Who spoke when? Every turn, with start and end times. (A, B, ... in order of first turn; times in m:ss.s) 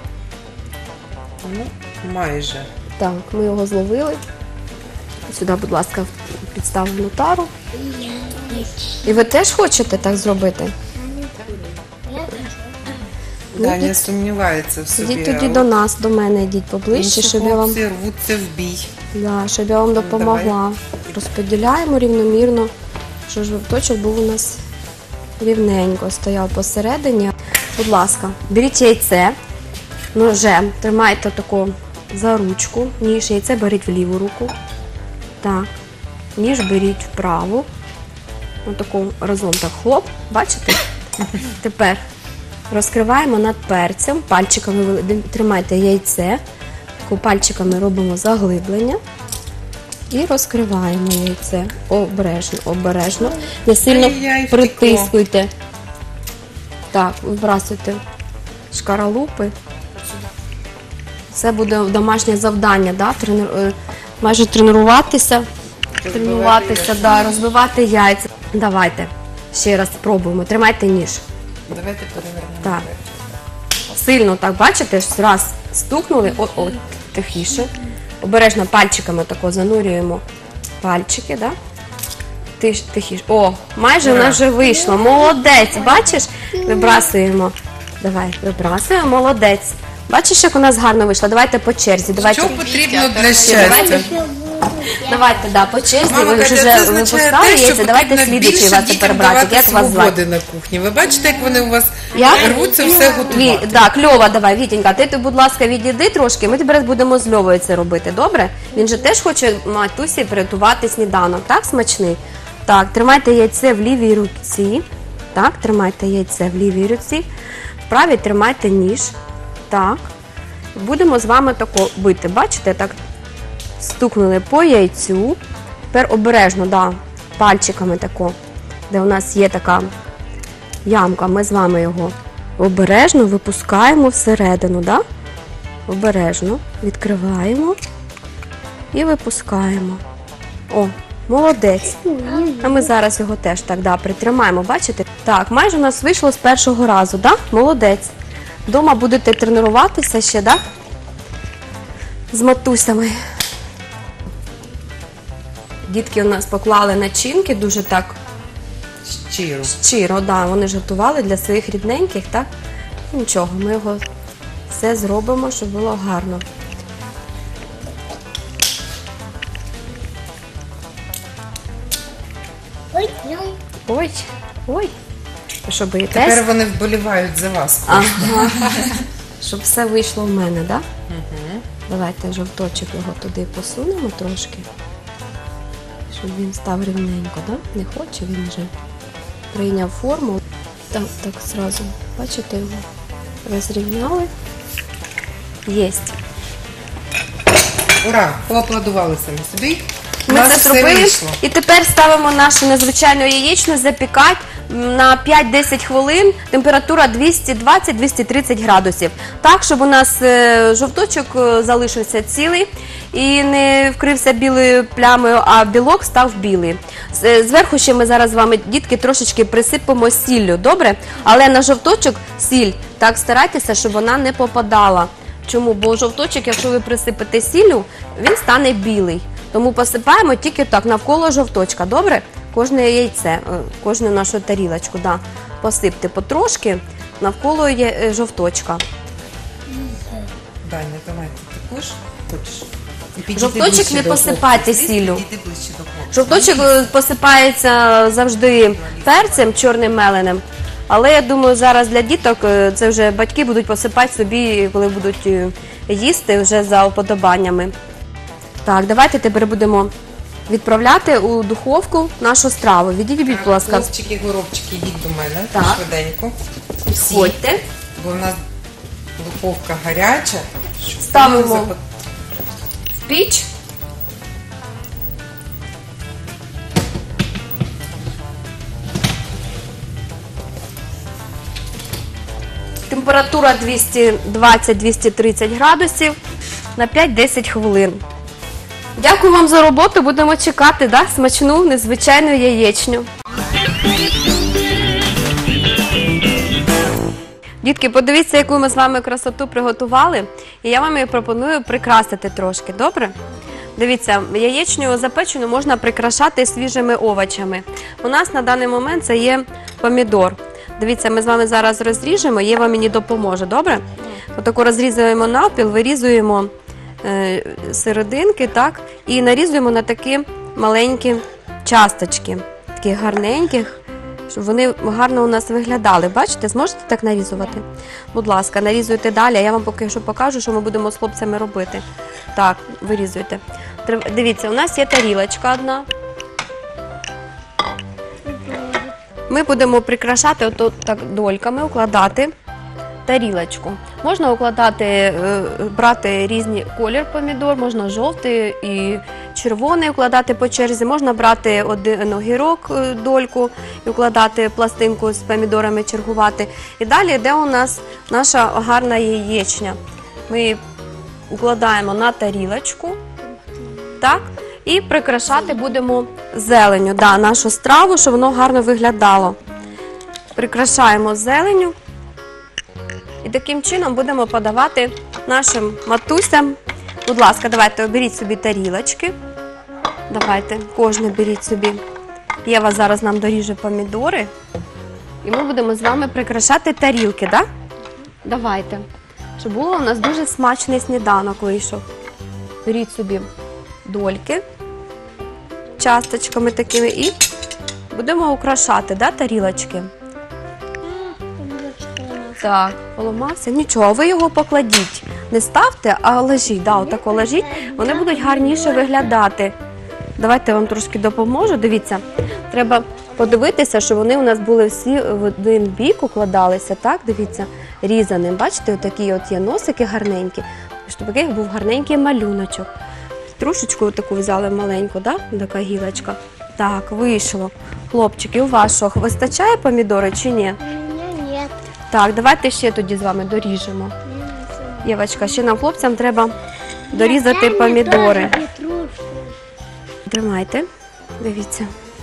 0:01.4-0:02.7 A
0:03.0-0:04.2 B
0:05.3-0:07.5 B
0:07.7-0:09.0 C
0:09.0-0:10.7 B
0:10.9-0:13.0 C
0:13.5-0:14.1 B
0:13.5-0:15.7 A
0:14.9-0:17.8 B
0:16.9-0:18.9 A
0:19.1-0:22.7 B
0:19.9-0:20.6 A
0:23.3-0:24.6 B
0:25.4-0:29.4 B
0:30.1-0:34.5 B
0:35.4-0:35.7 B
0:36.4-0:37.7 B
0:38.6-0:40.8 B
0:41.4-0:42.0 B
0:42.7-0:46.4 B
0:47.0-0:49.0 B
0:50.1-0:55.5 B
0:53.8-0:55.1 A
0:56.9-0:58.0 B
0:58.7-0:59.5 B
0:59.9-1:00.2 A
1:01.3-1:05.5 B
1:06.0-1:07.3 A
1:06.1-1:11.2 B
1:11.7-1:13.3 A
1:13.9-1:20.2 B
1:20.8-1:21.5 B
1:22.6-1:34.2 B
1:24.0-1:24.4 A
1:24.6-1:27.1 C
1:32.1-1:34.1 A
1:32.6-1:35.5 C
1:35.0-1:40.2 B
1:36.0-1:43.9 A
1:41.1-1:43.4 C
1:42.1-1:57.3 B
1:57.8-1:59.1 B
1:59.7-2:00.1 B
2:00.7-2:03.0 B
2:03.8-2:05.4 B
2:05.9-2:08.4 B
2:08.9-2:09.9 B
2:10.8-2:15.0 B
2:15.9-2:17.8 B
2:18.9-2:20.0 B
2:20.7-2:22.0 B
2:22.0-2:22.9 C
2:22.6-2:28.1 B
2:28.7-2:30.6 B
2:32.3-2:33.2 B
2:35.9-2:38.2 B
2:39.0-2:39.7 A
2:39.6-2:42.5 B
2:43.1-2:44.0 B
2:44.7-2:46.4 B
2:52.9-2:53.6 C
2:53.9-2:54.9 B
2:55.6-2:56.4 B
2:56.1-2:59.0 A
2:57.9-2:58.6 B
2:59.4-3:00.8 B
3:01.1-3:01.6 A
3:01.9-3:04.7 B
3:06.1-3:08.7 B
3:09.5-3:10.4 B
3:10.9-3:12.8 B
3:13.4-3:14.3 B
3:15.6-3:16.1 B
3:18.0-3:21.4 A
3:20.3-3:58.8 B
3:59.7-4:00.3 C
4:00.6-4:06.9 A
4:03.3-4:05.2 B
4:06.1-4:17.7 B
4:08.6-4:09.6 A
4:18.6-4:19.9 B
4:20.5-4:23.9 B
4:23.3-4:26.4 A
4:25.5-4:25.8 B
4:26.8-4:27.6 B
4:27.0-4:27.4 A
4:28.0-4:28.4 A
4:29.2-4:31.8 A
4:31.0-4:31.7 B
4:32.9-4:33.5 B
4:42.9-4:46.2 B
4:46.8-4:48.0 B
4:49.0-4:53.1 B
4:57.6-5:03.2 B
5:03.8-5:16.5 B
5:17.0-5:23.8 B
5:24.3-5:35.9 B
5:38.2-5:38.9 C
5:39.3-5:42.3 B
5:43.0-5:59.8 B
6:00.3-6:00.6 B
6:01.3-6:03.0 B
6:04.0-6:09.4 B
6:10.3-6:11.8 B
6:13.2-6:19.1 B
6:20.1-6:21.8 B
6:22.4-6:24.3 B
6:25.2-6:27.4 B
6:28.2-6:28.8 B
6:29.4-6:31.8 B
6:32.6-6:33.3 B
6:33.8-6:34.4 B
6:35.8-6:37.1 B
6:37.9-6:39.9 B
6:40.8-6:42.4 C
6:42.4-6:49.5 B
6:47.0-6:48.9 C
6:50.2-7:02.7 B
7:03.3-7:10.6 B
7:10.6-7:11.5 C
7:11.9-7:13.9 B
7:14.0-7:15.4 C
7:14.8-7:16.3 B
7:16.9-7:19.3 C
7:16.9-7:18.4 B
7:20.1-7:20.7 B
7:21.2-7:21.7 B